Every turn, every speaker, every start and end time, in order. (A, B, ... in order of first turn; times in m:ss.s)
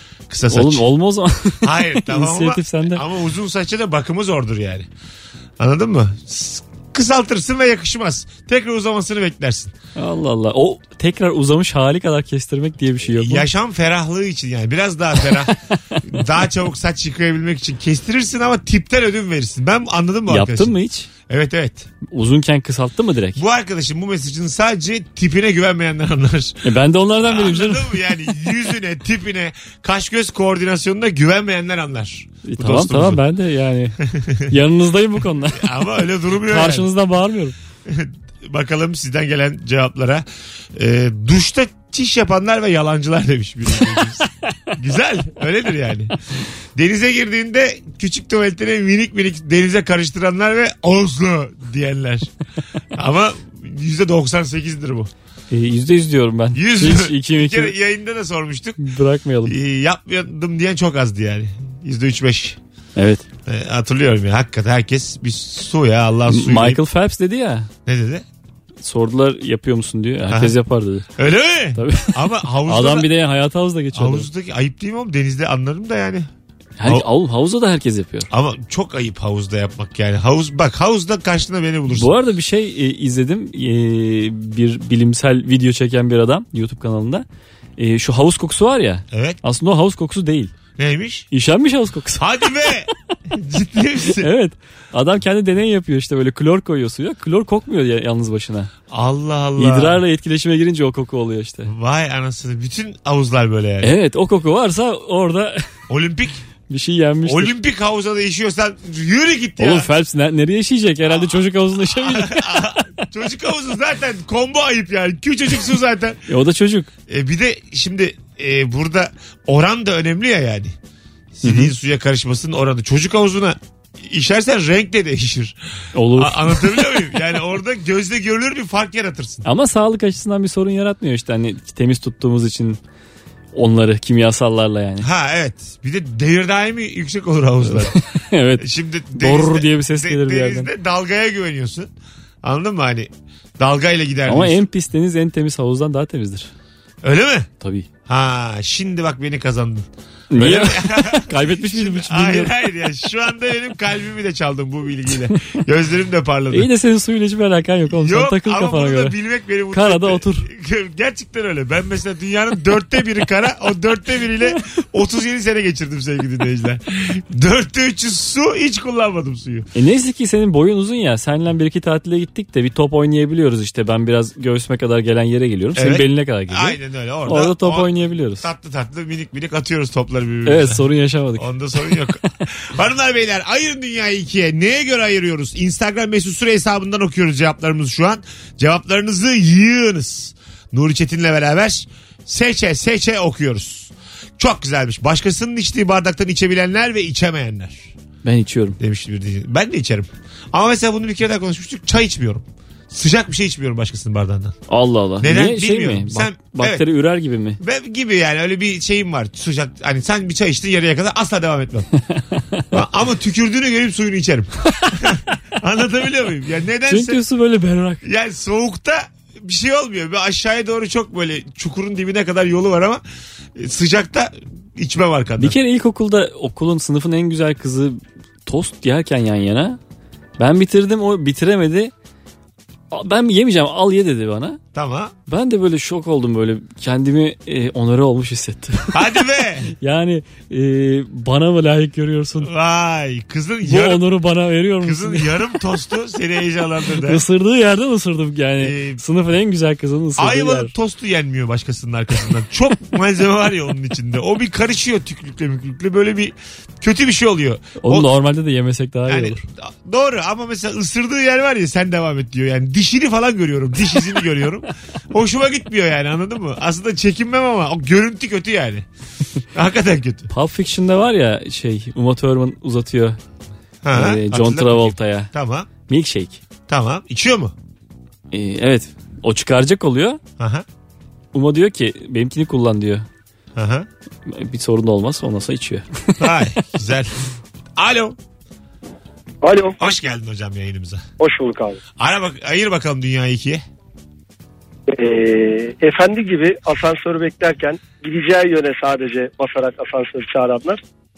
0:00.3-0:00.9 A
0:00.5-0:03.0 B
0:01.6-0:04.9 A
0:05.6-0:09.7 A
0:10.0-0:13.5 B
0:13.1-0:20.8 A
0:20.3-0:21.1 B
0:21.3-0:21.9 A
0:22.0-0:23.4 B
0:23.4-0:26.6 A
0:26.6-0:28.0 B
0:27.2-0:33.2 A
0:32.4-0:34.0 B
0:34.1-0:34.5 A
0:34.5-0:35.7 B
0:35.5-0:36.9 A
0:36.4-0:37.6 B
0:37.9-0:46.1 A
0:46.8-0:52.3 A
0:53.0-0:55.1 A
0:55.5-0:57.7 B
0:56.5-0:58.8 A
0:58.8-0:59.6 B
0:59.5-1:02.6 A
1:03.0-1:03.2 B
1:03.5-1:06.8 A
1:06.3-1:07.7 B
1:07.9-1:08.2 A
1:08.8-1:11.1 B
1:10.3-1:10.6 A
1:11.2-1:13.1 A
1:11.8-1:14.3 B
1:13.9-1:16.3 A
1:16.8-1:18.3 B
1:18.3-1:22.1 A
1:21.9-1:27.2 B
1:27.8-1:30.5 B
1:29.1-1:29.4 A
1:30.8-1:31.3 A
1:31.3-1:32.4 B
1:32.2-1:34.3 A
1:34.2-1:38.7 B
1:38.9-1:40.0 A
1:39.6-1:41.7 B
1:41.6-1:43.9 A
1:43.8-1:45.6 B
1:45.9-1:46.4 A
1:46.7-1:47.6 B
1:47.2-1:49.9 A
1:49.6-1:52.8 B
1:51.1-1:56.2 A
1:56.3-1:56.9 B
1:57.1-2:00.8 A
2:01.4-2:05.6 A
2:01.4-2:01.7 B
2:06.0-2:07.1 B
2:06.1-2:09.4 A
2:09.4-2:12.8 B
2:13.5-2:15.1 B
2:15.0-2:18.0 A
2:17.7-2:20.7 B
2:18.6-2:21.9 A
2:22.4-2:24.6 A
2:24.3-2:26.5 B
2:27.0-2:27.5 A
2:27.6-2:27.9 B
2:28.1-2:36.7 A
2:30.3-2:32.5 B
2:36.5-2:39.2 B
2:37.9-2:49.7 A
2:39.7-2:40.5 B
2:49.8-2:58.4 B
2:55.8-3:00.8 A
3:00.5-3:01.5 B
3:01.4-3:17.9 A
3:18.2-3:18.8 B
3:18.8-3:24.6 A
3:24.7-3:27.6 B
3:25.2-3:26.8 A
3:27.6-3:31.9 A
3:32.7-3:37.2 A
3:36.9-3:38.0 B
3:38.0-3:43.0 A
3:43.6-3:45.6 A
3:45.4-3:49.8 B
3:50.4-3:51.9 B
3:52.9-3:54.6 B
3:54.7-3:55.1 A
3:55.3-4:02.5 B
3:58.9-3:59.7 A
4:02.4-4:04.0 A
4:03.6-4:05.3 B
4:04.8-4:07.2 A
4:07.0-4:10.7 B
4:08.6-4:09.0 A
4:10.2-4:18.1 A
4:17.8-4:19.4 B
4:19.1-4:28.9 A
4:29.5-4:30.3 A
4:30.3-4:33.2 B
4:33.8-4:35.7 A
4:33.9-4:35.3 B
4:35.9-4:36.4 B
4:36.7-4:37.5 A
4:38.3-4:40.2 B
4:40.4-4:40.7 A
4:41.3-4:43.1 B
4:43.6-4:43.9 A
4:44.3-4:46.2 B
4:46.2-4:47.1 A
4:47.8-4:48.2 A
4:49.4-4:49.8 C
4:49.8-4:51.0 A
4:51.2-4:51.8 C
4:52.0-4:53.6 A
4:54.9-5:00.8 C